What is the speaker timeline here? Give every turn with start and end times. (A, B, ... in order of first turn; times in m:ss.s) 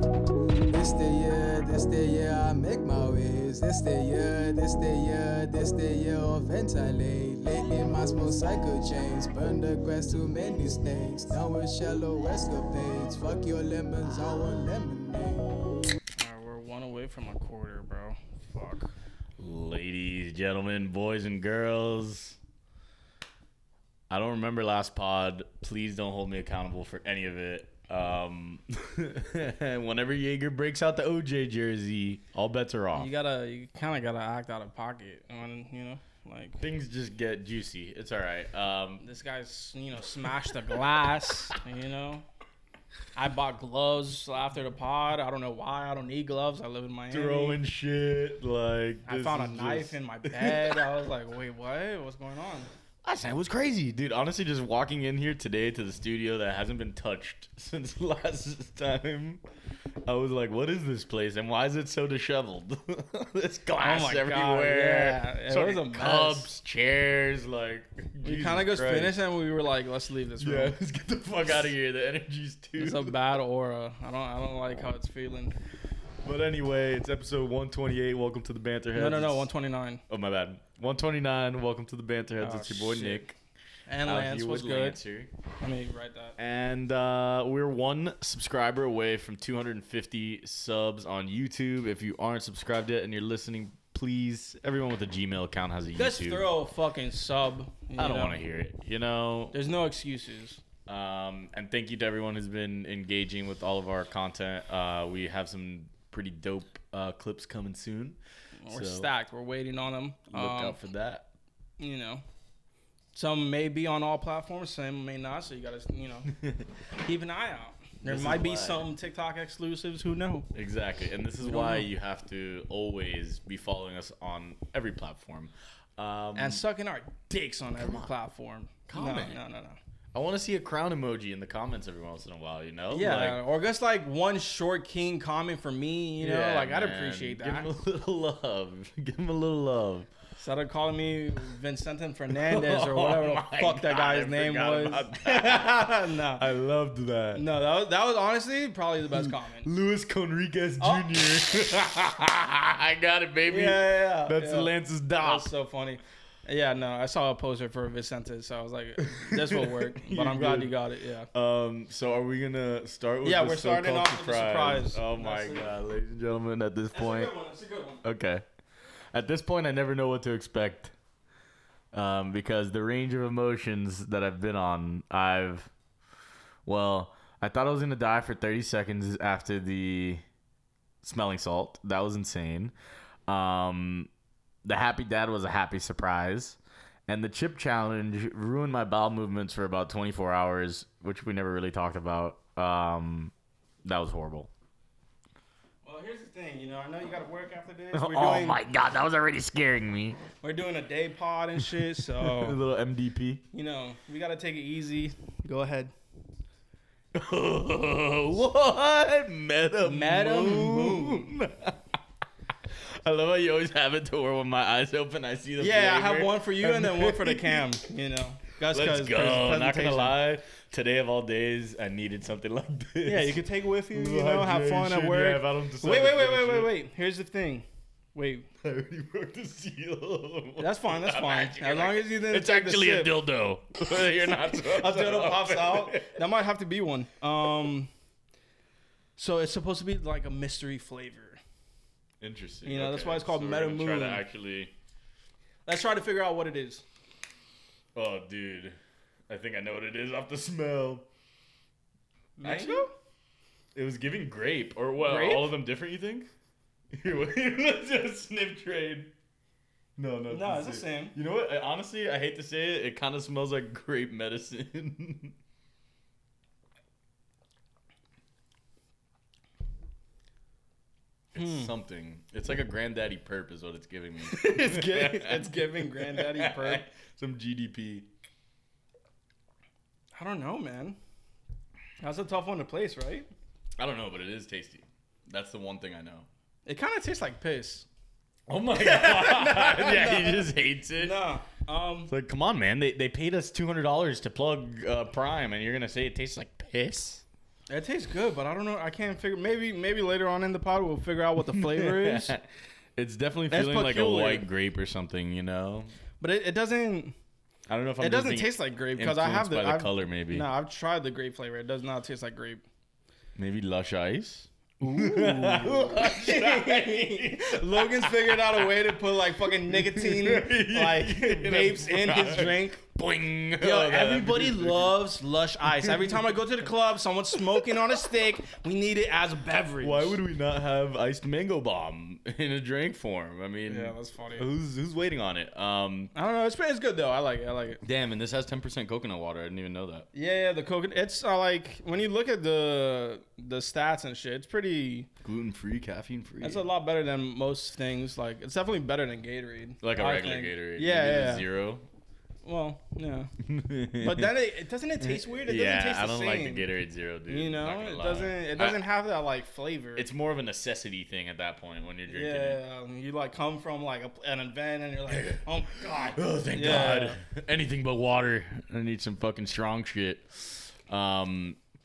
0:00.6-0:15.6 A
0:16.2-0:18.9 B
0:19.4-0:22.4 C
0:24.1-0:33.1 C
0:32.9-0:36.6 B
0:36.6-0:39.0 C
0:39.0-0:42.2 B
0:43.2-0:47.6 B
0:47.1-0:50.8 C
0:49.0-0:52.7 B
0:53.0-0:59.4 C
1:00.0-1:09.2 C
1:03.8-1:06.5 B
1:08.2-1:10.8 B
1:10.4-1:13.2 C
1:12.8-1:15.6 B
1:16.2-1:19.5 C
1:18.9-1:20.0 B
1:20.1-1:23.4 C
1:22.4-1:23.3 B
1:23.9-1:25.0 B
1:24.0-1:25.3 C
1:25.6-1:26.4 B
1:26.4-1:36.5 C
1:35.9-1:38.4 B
1:38.0-1:39.6 C
1:39.5-1:40.6 B
1:40.9-1:49.1 C
1:48.6-1:50.8 B
1:50.3-1:51.2 C
1:51.8-1:52.2 B
1:53.1-1:56.3 B
1:56.3-1:56.7 C
1:57.0-2:00.5 B
1:58.1-1:58.9 C
2:00.5-2:06.6 C
2:01.4-2:01.9 B
2:06.3-2:09.8 B
2:07.8-2:08.1 C
2:08.9-2:09.4 C
2:10.1-2:13.4 C
2:12.9-2:17.7 B
2:16.2-2:20.1 C
2:20.4-2:26.4 B
2:22.3-2:27.4 C
2:27.3-2:29.7 B
2:29.1-2:35.5 C
2:30.8-2:31.0 B
2:33.4-2:41.3 B
2:39.0-2:40.7 C
2:41.3-2:47.3 C
2:43.2-2:45.7 B
2:46.9-2:48.0 B
2:48.0-2:48.4 C
2:49.1-2:50.9 C
2:51.9-2:55.7 C
2:56.6-3:00.2 C
3:01.0-3:02.7 C
3:03.3-3:04.1 C
3:04.6-3:13.3 C
3:13.8-3:14.5 C
3:15.8-3:18.6 B
3:17.9-3:20.2 C
3:20.4-3:22.6 B
3:21.6-3:23.4 C
3:23.5-3:25.9 B
3:27.1-3:31.9 C
3:29.8-3:31.3 B
3:32.7-3:37.6 C
3:35.6-3:40.2 B
3:38.6-3:46.7 C
3:43.0-3:48.5 B
3:48.6-3:56.2 C
3:50.6-3:53.1 B
3:54.5-3:57.9 B
3:59.2-4:01.4 B
4:02.2-4:04.7 C
4:02.6-4:04.2 B
4:05.6-4:06.8 B
4:07.9-4:08.8 C
4:09.3-4:11.0 C
4:12.4-4:12.9 B
4:12.4-4:12.9 C
4:13.7-4:16.3 C
4:15.0-4:15.5 B
4:16.9-4:19.1 C
4:20.0-4:25.3 C
4:20.3-4:21.1 B
4:31.3-4:38.1 C
4:31.4-4:31.7 B
4:34.3-4:36.8 B
4:40.1-4:41.0 B
4:42.0-4:43.3 B
4:43.8-4:46.3 C
4:46.6-4:47.8 B
4:48.5-4:51.2 C
4:48.7-4:52.1 B
4:52.1-4:57.2 C
4:57.7-5:02.3 B
5:01.4-5:02.4 C
5:03.0-5:05.9 C
5:03.5-5:04.4 B
5:06.2-5:07.2 B
5:07.7-5:10.5 C
5:08.0-5:12.6 B
5:13.4-5:18.9 C
5:14.8-5:22.8 B
5:19.5-5:25.0 C
5:23.6-5:30.2 B
5:25.6-5:26.3 C
5:29.8-5:36.1 C
5:33.7-5:34.5 B
5:36.1-5:37.8 B
5:37.8-5:40.1 C
5:40.1-5:45.1 B
5:45.2-5:46.7 C
5:46.4-5:51.4 B
5:49.8-5:51.9 C
5:52.4-5:53.3 B
5:53.4-5:54.3 C
5:54.0-5:56.6 B
5:55.0-5:58.8 C
5:57.3-6:00.0 B
6:00.0-6:02.6 C
6:02.1-6:07.2 B
6:05.1-6:05.4 C
6:06.1-6:11.6 C